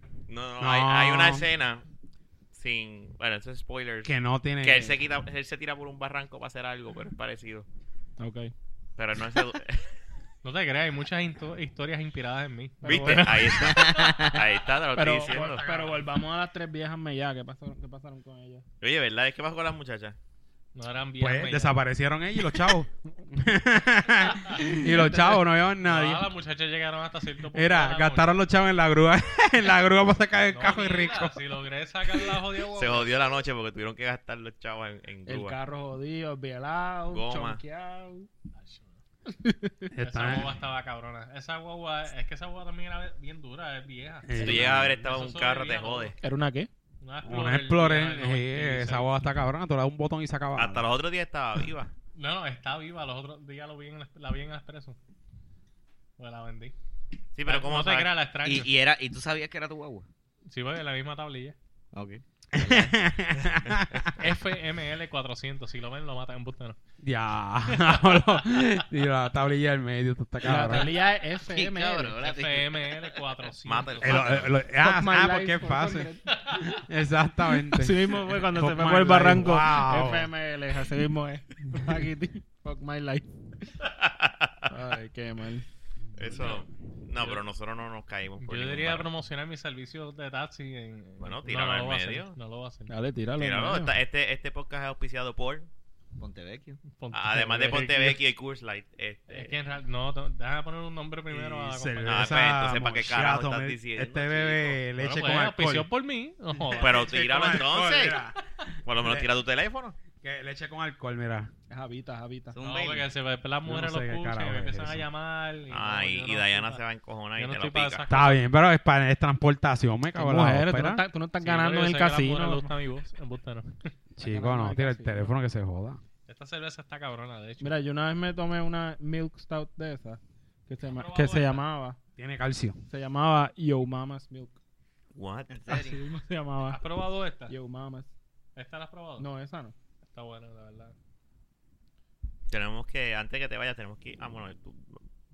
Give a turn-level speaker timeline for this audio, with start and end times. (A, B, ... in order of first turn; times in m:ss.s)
0:00.3-0:01.8 A
0:00.6-0:01.5 B
0:02.5-0:07.7 A
0:04.0-0:05.0 B
0:08.2-0:08.5 C
0:09.0-0:09.9 A
0:10.4-0:14.0 D
0:12.8-0:13.6 C
0:12.8-0:15.6 A
0:13.7-0:14.4 E
0:14.9-0:18.6 C
0:15.2-0:16.1 D
0:18.8-0:20.2 A
0:20.8-0:21.8 D
0:21.2-0:26.3 B
0:24.7-0:25.4 C
0:25.8-0:28.4 D
0:27.5-0:31.4 B
0:30.5-0:33.1 D
0:32.8-0:35.6 A
0:35.3-0:38.3 C
0:37.1-0:37.6 A
0:38.6-0:39.0 D
0:39.3-0:39.9 C
0:39.9-0:40.5 B
0:40.0-0:46.2 D
0:44.3-0:45.0 B
0:44.3-0:46.2 A
0:46.2-0:46.7 C
0:47.0-0:49.1 D
0:47.2-0:50.9 B
0:50.6-0:51.9 A
0:52.2-0:55.0 D
0:56.2-0:56.8 D
0:57.4-0:58.1 A
0:57.5-0:58.7 D
0:58.4-1:00.1 E
1:00.5-1:01.6 D
1:01.9-1:03.0 E
1:02.5-1:04.3 B
1:04.2-1:06.8 D
1:07.0-1:10.9 B
1:07.7-1:08.6 D
1:10.4-1:12.2 C
1:11.4-1:13.2 E
1:12.2-1:14.4 D
1:13.6-1:14.6 A
1:14.0-1:18.0 B
1:14.8-1:16.3 C
1:16.4-1:16.7 D
1:17.7-1:23.3 C
1:18.6-1:20.3 B
1:24.0-1:24.7 A
1:24.7-1:25.7 C
1:26.2-1:29.1 A
1:28.4-1:32.9 D
1:31.2-1:32.4 A
1:32.9-1:34.0 C
1:33.4-1:35.7 A
1:36.2-1:36.8 E
1:36.9-1:38.2 D
1:37.1-1:39.5 A
1:39.3-1:42.4 D
1:41.3-1:45.9 B
1:42.0-1:44.8 A
1:45.0-1:47.1 D
1:46.6-1:49.3 B
1:46.8-1:48.2 A
1:48.9-1:50.0 A
1:50.2-1:51.5 B
1:51.7-1:52.6 C
1:52.5-1:53.1 E
1:52.6-1:56.8 D
1:53.7-1:55.1 B
1:55.7-1:58.1 A
1:57.4-1:58.4 D
1:58.1-2:01.0 B
2:00.2-2:02.7 C
2:01.4-2:03.9 D
2:04.2-2:06.0 B
2:04.2-2:05.4 C
2:06.3-2:07.8 D
2:07.6-2:12.0 C
2:10.9-2:11.6 D
2:12.2-2:12.8 B
2:12.9-2:14.6 C
2:15.2-2:15.5 A
2:15.5-2:16.0 E
2:15.7-2:16.8 C
2:16.7-2:17.5 D
2:17.5-2:18.1 C
2:18.6-2:19.3 D
2:19.2-2:19.8 C
2:20.1-2:21.0 D
2:22.5-2:25.0 A